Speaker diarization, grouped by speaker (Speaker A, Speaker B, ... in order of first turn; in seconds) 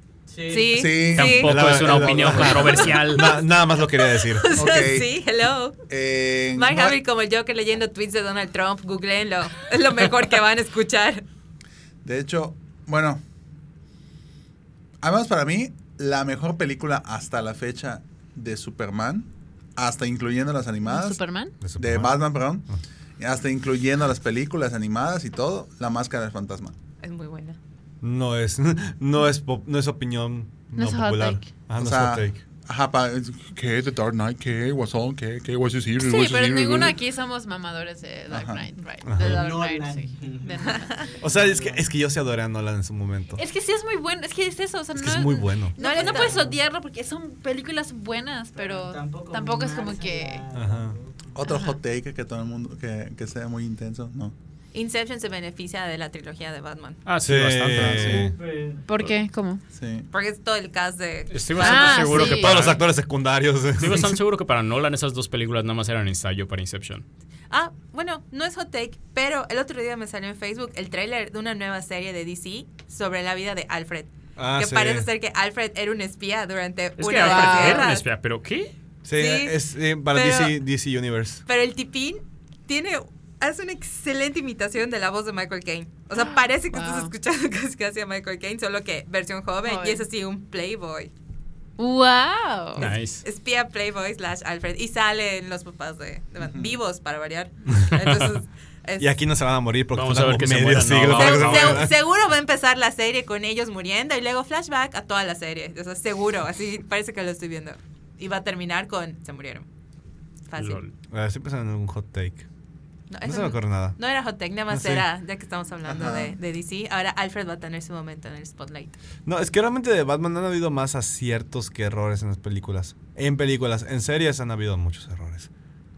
Speaker A: 0.3-1.1, 39.1-41.9, 46.2-46.6, 48.5-51.4, 58.1-58.9
Speaker B: 0.5-1.7, 3.2-5.8, 6.5-11.2, 27.0-27.6, 40.5-41.0, 45.8-46.4, 54.7-57.0, 60.1-62.2, 67.5-78.0, 79.2-79.6, 80.1-80.5, 81.5-91.1, 93.2-99.1, 101.0-109.7, 110.5-110.8, 113.1-119.0
Speaker C: 0.7-2.9, 4.5-5.2, 5.9-7.0, 12.0-13.2, 15.0-21.2, 21.8-22.6, 23.2-26.7, 31.8-37.0, 38.3-38.6, 51.3-54.3, 57.8-58.3, 59.7-60.1, 96.4-96.7, 115.8-116.4
Speaker D: 1.0-3.4, 57.0-58.2, 61.3-62.9, 63.8-67.0, 77.0-78.7, 92.8-93.2, 98.0-98.4, 99.9-101.9, 110.6-110.9
Speaker E: 1.4-4.5, 21.6-22.2, 28.0-32.4, 39.0-39.4, 41.2-43.4, 45.0-45.7, 50.5-50.9, 57.2-58.3, 62.0-64.2, 74.4-75.1, 79.0-81.4, 99.0-101.9, 111.1-112.5, 113.2-114.0, 114.7-115.0, 119.2-125.5
Speaker F: 20.8-21.5, 30.7-31.5, 36.0-41.0, 43.4-50.5, 51.4-51.8, 58.8-59.6, 61.6-62.6, 77.2-77.9, 86.2-87.1, 89.6-90.0, 91.8-92.9